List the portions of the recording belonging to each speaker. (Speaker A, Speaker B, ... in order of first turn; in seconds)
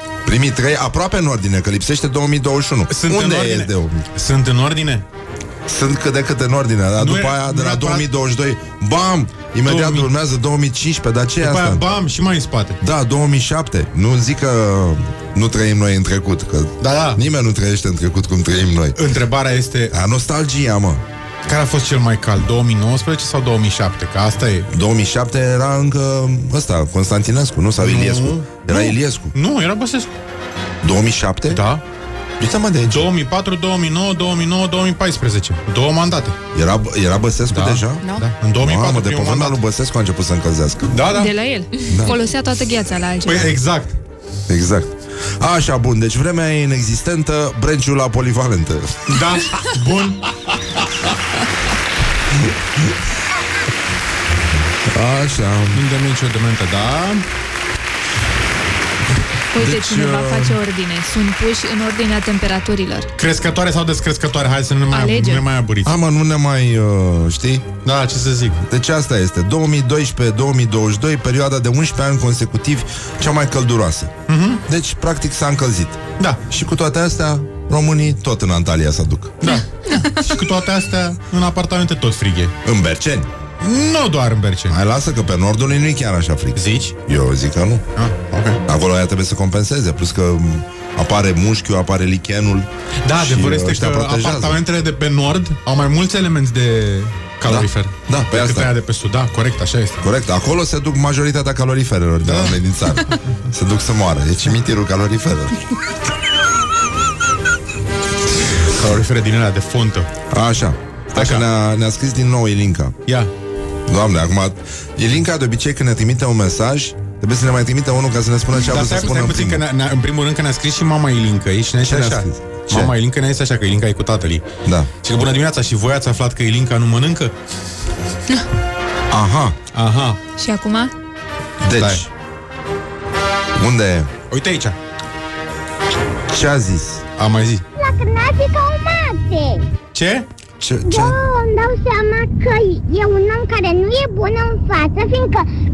Speaker A: 0.2-4.1, 5.7-11.8, 12.8-19.0, 19.9-21.0, 24.7-29.4, 30.8-31.7, 32.4-33.1, 36.5-38.0, 38.6-41.0, 41.9-42.2, 44.5-49.2, 52.4-52.9, 54.9-55.8, 59.6-60.6, 65.8-67.7, 68.7-74.1, 74.7-79.4, 82.7-83.3, 84.7-87.9, 88.7-94.6, 97.5-98.7, 100.0-105.8, 110.3-113.0, 113.9-119.7, 121.8-122.9, 124.7-124.9, 129.1-129.6, 131.6-132.1, 133.6-134.1, 136.3-137.0, 140.6-141.2
Speaker B: 2.9-5.0, 7.0-8.1, 9.6-10.1, 11.4-12.8, 16.8-17.2, 19.0-19.9, 21.5-24.7, 27.8-30.1, 31.5-31.8, 32.9-36.4, 37.5-39.6, 40.9-41.3, 43.2-44.0, 49.1-50.3, 55.7-57.2, 63.2-66.0, 67.8-68.6, 74.3-74.6, 79.4-82.5, 83.6-84.8, 86.5-86.9, 88.0-88.6, 93.0-100.0, 102.2-103.2, 108.7-110.1, 111.2-111.5, 118.7-124.5, 125.0-127.3, 129.7-130.2, 131.8-132.0, 134.3-134.8, 137.2-137.6, 139.9-140.3
Speaker C: 41.1-43.6, 59.5-63.1, 64.9-65.5, 130.4-130.9
Speaker D: 137.8-139.7, 140.9-145.5